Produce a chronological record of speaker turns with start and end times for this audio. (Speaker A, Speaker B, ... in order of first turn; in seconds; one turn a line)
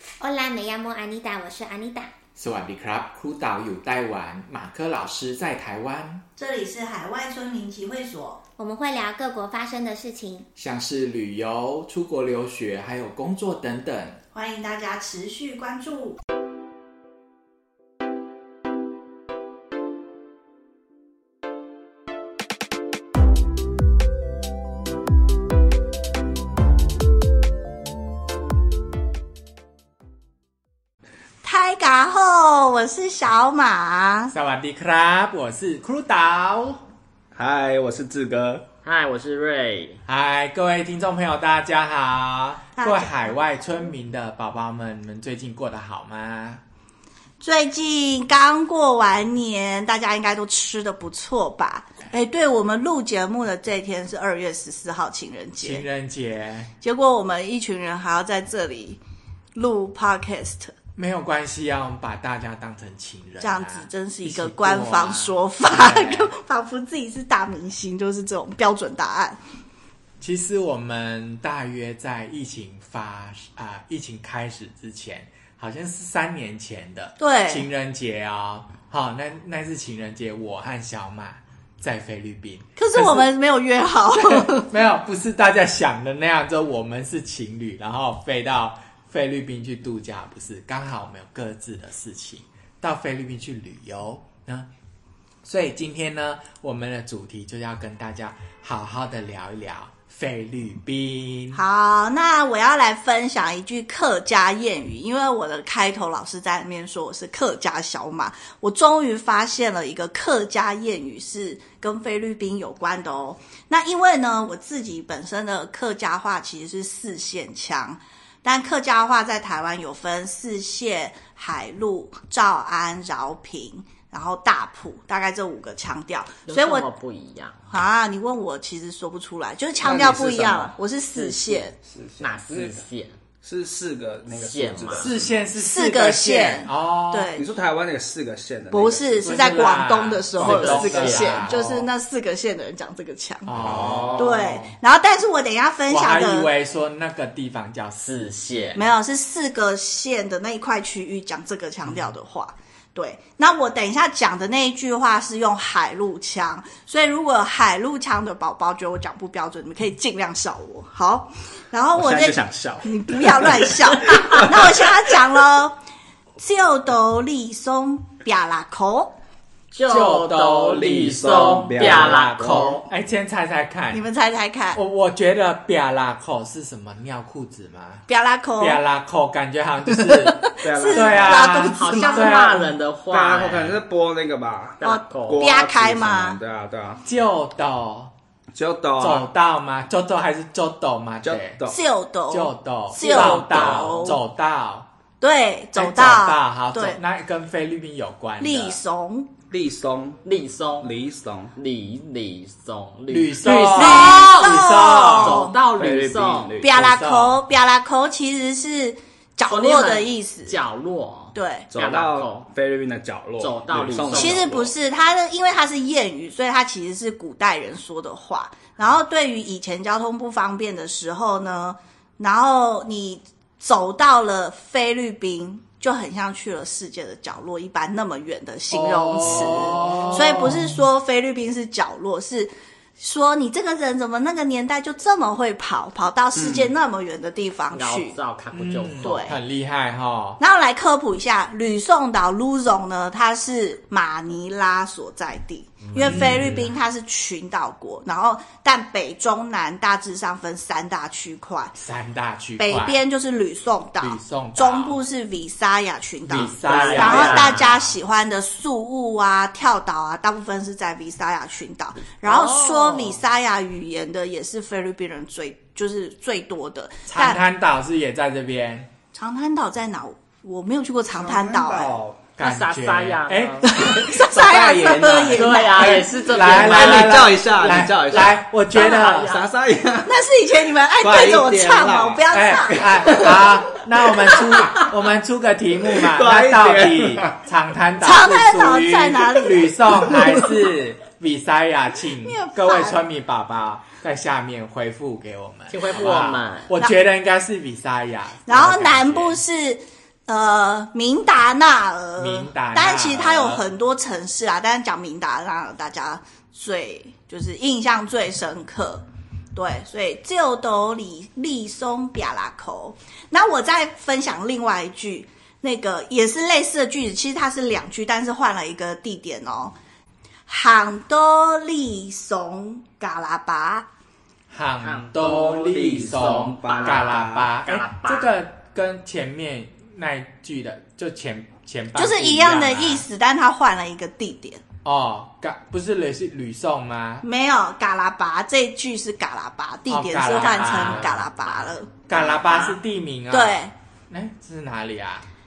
Speaker A: 0.2-2.1
Speaker B: 2.4-6.2
Speaker C: 6.3-8.4
Speaker A: 8.6-10.5
Speaker B: 10.6-14.2
Speaker C: 14.3-16.2
Speaker C: 31.4-34.3
Speaker B: 34.3-36.8
Speaker D: 37.3-38.6
Speaker E: 38.8-40.0
Speaker B: 40.0-46.6
Speaker C: 42.8-43.3
Speaker C: 47.4-55.8
Speaker B: 55.6-56.7
Speaker C: 56.8-59.0
Speaker C: 59.5-60.7
Speaker B: 61.0-66.3
Speaker C: 63.4-69.4
Speaker B: 70.2-83.3
Speaker C: 77.2-77.7
Speaker C: 82.8-84.7
Speaker B: 84.1-94.7
Speaker B: 95.4-101.6
Speaker C: 101.5-126.9
Speaker E: 126.5-127.7
Speaker C: 127.7-131.8
Speaker D: 129.8-130.7
Speaker E: 131.1-133.1
Speaker D: 131.8-132.8
Speaker D: 133.4-135.4
Speaker E: 134.3-135.1
Speaker B: 135.0-137.3
Speaker C: 135.6-137.5
Speaker D: 137.3-139.4
Speaker C: 138.7-143.6
Speaker B: 139.2-141.9
Speaker E: 140.4-141.5
Speaker D: 141.5-141.8
Speaker B: 143.4-144.7
Speaker D: 143.6-144.4
Speaker C: 144.2-146.5
Speaker B: 145.9-148.3
Speaker E: 148.0-148.8
Speaker C: 148.8-165.8
Speaker D: 161.9-165.0
Speaker C: 166.4-169.1
Speaker E: 169.7-172.8
Speaker B: 169.9-174.0
Speaker D: 170.7-172.8
Speaker C: 173.9-174.8
Speaker B: 174.7-178.0
Speaker C: 178.1-178.8
Speaker B: 178.6-182.7
Speaker C: 180.0-182.5
Speaker D: 180.6-181.5
Speaker E: 181.4-183.8
Speaker D: 183.1-187.0
Speaker E: 184.8-185.4
Speaker C: 184.8-186.4
Speaker B: 187.0-188.1
Speaker D: 188.5-189.3
Speaker B: 189.0-191.6
Speaker D: 191.2-191.8
Speaker C: 191.7-194.2
Speaker B: 192.3-194.9
Speaker D: 193.0-194.1
Speaker C: 195.2-197.0
Speaker B: 195.7-198.8
Speaker C: 198.4-199.3
Speaker D: 199.5-200.2
Speaker E: 200.2-200.9
Speaker D: 200.8-201.5
Speaker E: 201.5-206.5
Speaker B: 203.1-205.4
Speaker C: 203.7-205.6
Speaker D: 205.8-206.9
Speaker C: 206.6-210.6
Speaker B: 206.6-207.4
Speaker E: 209.4-212.5
Speaker C: 211.3-211.7
Speaker D: 211.7-214.7
Speaker E: 213.4-214.5
Speaker C: 214.1-238.2
Speaker B: 228.7-230.8
Speaker D: 236.3-236.7
Speaker E: 237.7-239.4
Speaker B: 238.5-240.4
Speaker C: 239.0-239.4
Speaker C: 240.4-251.7
Speaker E: 245.8-246.4
Speaker B: 246.0-246.7
Speaker B: 251.8-253.0
Speaker C: 252.6-267.4
Speaker B: 254.0-255.0
Speaker B: 256.2-257.9
Speaker E: 256.3-257.7
Speaker E: 262.2-263.2
Speaker B: 267.1-268.9
Speaker C: 269.1-272.0
Speaker D: 271.1-272.2
Speaker B: 272.4-274.2
Speaker E: 272.4-273.7
Speaker C: 273.6-276.0
Speaker D: 273.9-280.1
Speaker E: 275.3-277.3
Speaker B: 275.8-279.4
Speaker C: 278.8-279.4
Speaker C: 280.0-283.2
Speaker D: 281.0-282.2
Speaker B: 282.3-299.4
Speaker D: 282.8-284.9
Speaker D: 285.9-287.4
Speaker C: 288.0-290.5
Speaker C: 292.2-293.0
Speaker E: 295.7-296.7
Speaker C: 298.5-319.7
Speaker B: 302.2-303.6
Speaker C: 320.5-323.9
Speaker B: 324.5-333.1
Speaker E: 324.8-328.3
Speaker D: 325.2-327.5
Speaker C: 331.9-334.6
Speaker B: 334.8-337.2
Speaker C: 337.2-341.9
Speaker B: 339.9-341.3
Speaker E: 340.6-342.8
Speaker B: 342.1-345.2
Speaker C: 343.3-343.7